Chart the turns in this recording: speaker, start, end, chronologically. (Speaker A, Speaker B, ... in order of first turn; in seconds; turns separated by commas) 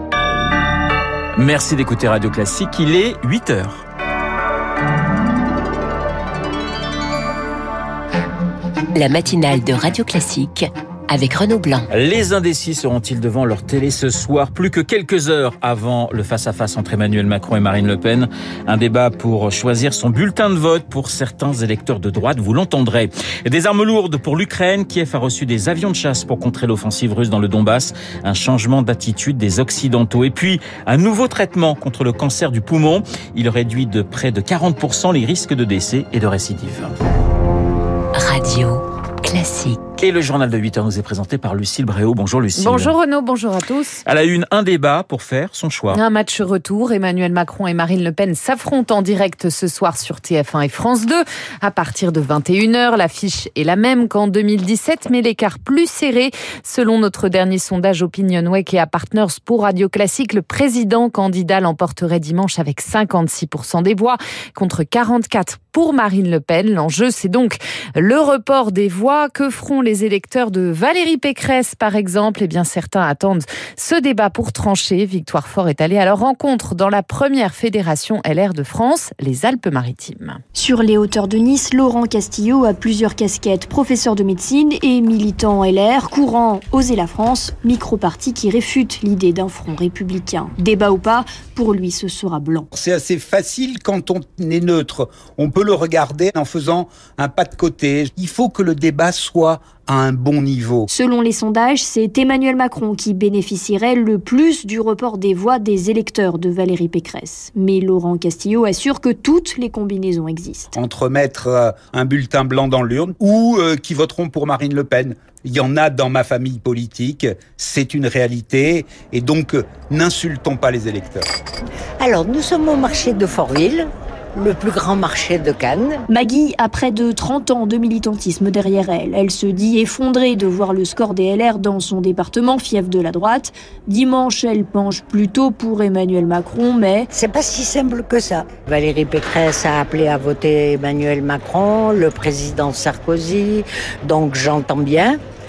Speaker A: 1.4-3.9, Speaker B: 8.9-11.9, Speaker A: 11.9-36.9, Speaker B: 38.1-39.8, Speaker A: 40.0-43.0, Speaker C: 42.6-44.0, Speaker A: 44.0-46.0, Speaker C: 45.9-80.4, Speaker D: 80.5-92.7, Speaker E: 92.8-100.9, Speaker D: 100.9-110.8, Speaker E: 110.8-121.3, Speaker F: 122.0-126.0, Speaker D: 126.1-137.1, Speaker F: 137.1-145.2